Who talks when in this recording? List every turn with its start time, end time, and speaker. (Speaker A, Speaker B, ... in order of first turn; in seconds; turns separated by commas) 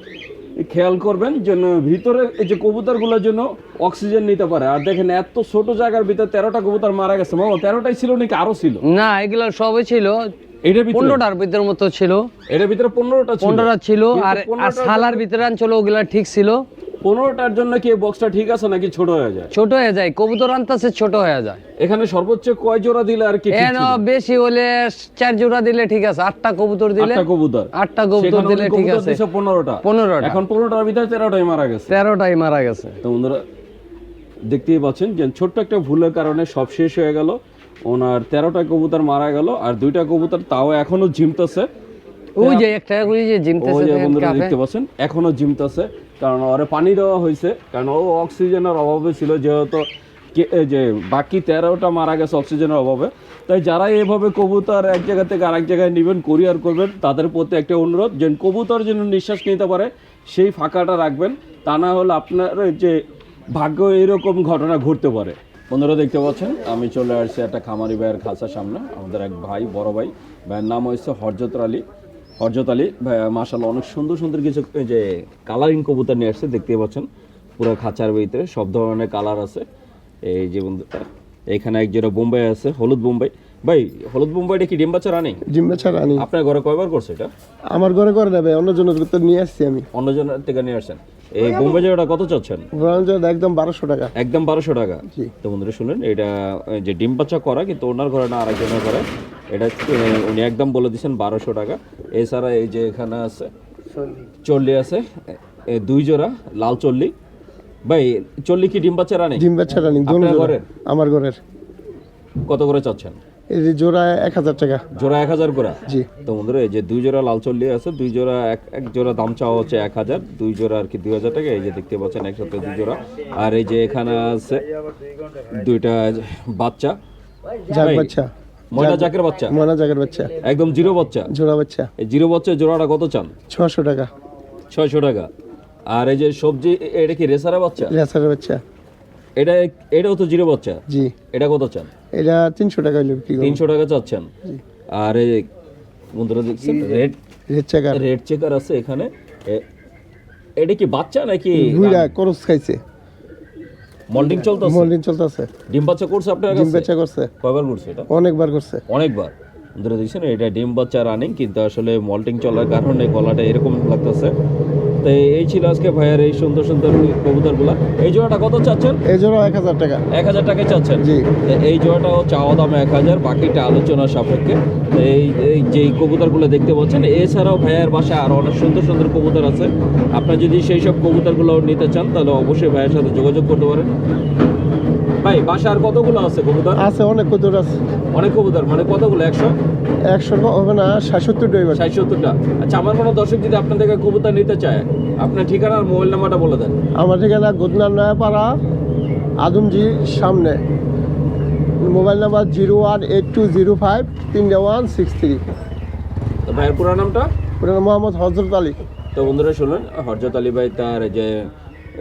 Speaker A: 0.6-8.8, Speaker B: 8.9-10.2, Speaker A: 10.6-11.2, Speaker B: 10.9-12.3, Speaker A: 12.5-15.3, Speaker B: 13.4-16.6, Speaker A: 17.0-19.5, Speaker B: 19.5-21.6, Speaker A: 21.8-24.0, Speaker B: 23.5-27.2, Speaker A: 27.0-31.9, Speaker B: 27.8-29.2, Speaker B: 29.8-30.4, Speaker B: 31.9-33.0, Speaker A: 33.0-33.4, Speaker A: 34.5-41.7, Speaker B: 42.4-44.5, Speaker A: 42.4-42.6, Speaker A: 43.6-63.0, Speaker A: 63.5-71.8, Speaker A: 72.4-77.1, Speaker A: 77.6-79.6, Speaker A: 80.3-85.4, Speaker C: 85.5-86.2, Speaker A: 86.1-87.3, Speaker C: 87.7-89.8, Speaker A: 89.9-92.7, Speaker C: 92.7-94.1, Speaker A: 94.1-103.5, Speaker C: 104.0-104.2, Speaker A: 104.4-105.0, Speaker A: 105.7-107.1, Speaker A: 107.8-109.5, Speaker C: 109.4-111.4, Speaker A: 110.0-110.7, Speaker A: 112.4-113.2, Speaker C: 113.5-114.8, Speaker A: 114.9-124.6, Speaker A: 125.5-127.0, Speaker A: 127.7-128.1, Speaker C: 127.7-130.3, Speaker A: 128.7-129.6, Speaker A: 130.4-131.3, Speaker C: 131.3-131.9, Speaker A: 132.0-133.3, Speaker C: 133.5-134.1, Speaker A: 134.7-135.3, Speaker A: 135.9-137.9, Speaker C: 137.9-138.6, Speaker A: 139.3-140.8, Speaker C: 140.9-141.1, Speaker A: 141.3-141.9, Speaker C: 142.1-143.6, Speaker A: 143.4-144.3, Speaker A: 144.9-145.5, Speaker A: 146.1-147.2, Speaker C: 147.5-148.0, Speaker A: 147.9-149.6, Speaker A: 150.6-152.1, Speaker C: 151.6-152.8, Speaker A: 154.1-154.9, Speaker C: 154.2-155.5, Speaker A: 155.7-156.9, Speaker C: 156.5-157.3, Speaker A: 157.4-158.1, Speaker C: 158.1-158.8, Speaker A: 158.9-164.3, Speaker A: 165.0-169.0, Speaker C: 169.1-170.0, Speaker A: 170.1-183.9, Speaker C: 171.0-171.3, Speaker A: 185.2-186.8, Speaker C: 186.8-187.7, Speaker A: 188.1-189.5, Speaker C: 190.1-191.8, Speaker A: 191.7-196.8, Speaker C: 197.0-198.5, Speaker C: 199.4-200.6, Speaker C: 201.8-205.4, Speaker A: 206.5-207.3, Speaker C: 207.6-208.8, Speaker A: 209.1-211.5